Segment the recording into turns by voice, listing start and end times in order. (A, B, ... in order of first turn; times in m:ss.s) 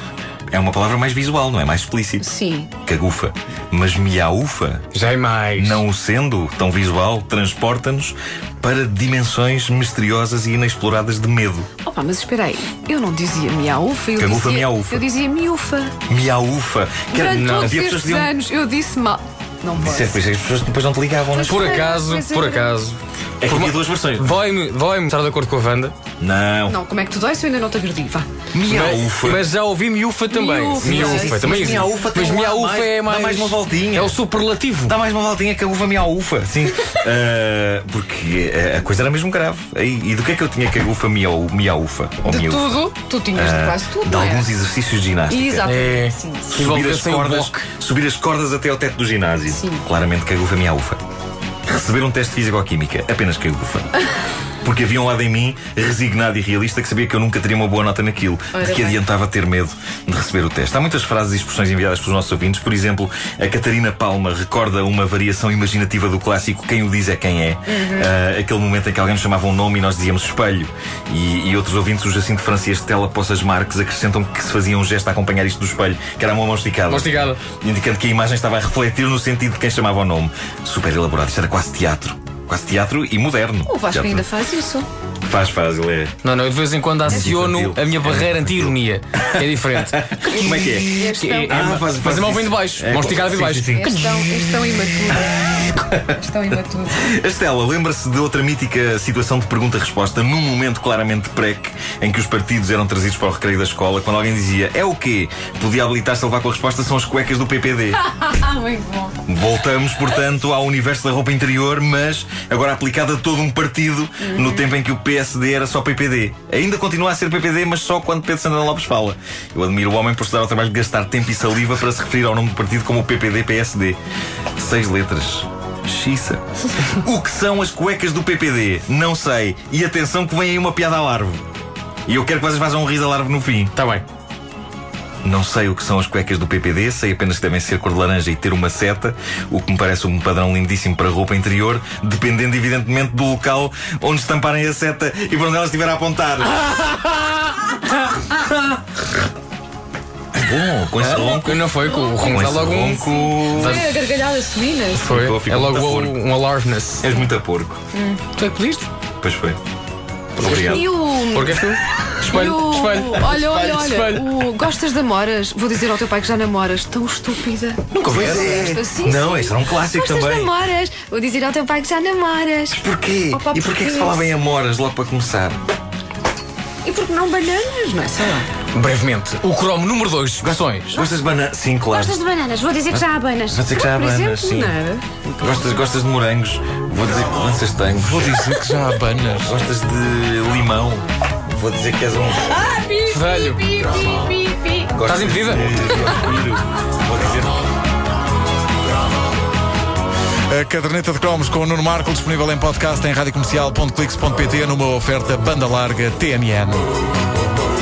0:00.5-0:02.3 A
0:02.2-0:02.7 B
0:02.8-0:04.8 A
0:04.9-0:05.8 C
0:05.6-0:11.7 A
0:11.8-0:15.9 B
0:14.2-0:15.0 A
0:16.1-0:18.3 A
0:17.1-0:20.2 B
0:17.2-0:17.8 C
0:19.8-0:21.8 A
0:21.3-0:22.8 B
0:21.4-0:25.9 C
0:23.4-0:24.3 A
0:26.2-0:26.8 A
0:26.7-0:28.3 B
0:28.5-0:29.4 A
0:28.6-0:35.0 C
0:30.3-0:32.5 B
0:30.8-0:34.2 A
0:34.9-0:42.8 A
0:42.2-0:44.5 B
0:43.3-0:45.7 A
0:45.3-0:46.6 B
0:45.6-0:47.6 C
0:46.5-0:51.0 A
0:49.5-0:49.8 B
0:51.6-0:54.0 A
0:54.6-1:24.2 A
0:58.5-0:59.0 B
1:07.7-1:08.1 B
1:16.9-1:17.4 C
1:23.7-1:24.9 B
1:25.2-1:26.2 A
1:26.2-1:34.1 C
1:27.0-1:34.1 A
1:27.1-1:27.4 B
1:30.2-1:31.8 B
1:33.7-1:37.1 B
1:35.7-1:36.1 A
1:36.9-1:48.0 A
1:48.0-1:49.2 B
1:49.2-2:04.0 A
1:54.2-1:54.7 B
2:04.6-2:11.4 A
2:12.0-2:13.7 A
2:13.7-2:14.0 C
2:15.2-2:26.8 A
2:30.3-2:33.8 A
2:31.0-2:34.1 C
2:31.7-2:32.5 B
2:33.0-2:35.1 B
2:34.9-2:37.1 C
2:35.1-2:36.2 A
2:37.0-2:37.8 A
2:37.9-2:38.2 B
2:38.3-2:38.9 C
2:39.2-2:39.6 A
2:40.4-2:40.9 A
2:40.4-2:44.5 C
2:40.5-2:41.6 B
2:42.1-2:54.3 B
2:47.9-2:48.6 C
2:48.0-2:50.5 A
2:52.7-2:55.6 A
2:56.8-2:58.5 B
2:58.7-3:00.9 C
3:00.4-3:02.2 A
3:01.9-3:05.6 B
3:02.9-3:04.7 A
3:05.4-3:08.5 A
3:07.9-3:09.5 D
3:09.4-3:12.6 A
3:12.5-3:15.0 B
3:13.1-3:13.7 C
3:14.9-3:17.6 A
3:15.0-3:16.1 C
3:15.7-3:16.3 B
3:20.5-3:26.9 D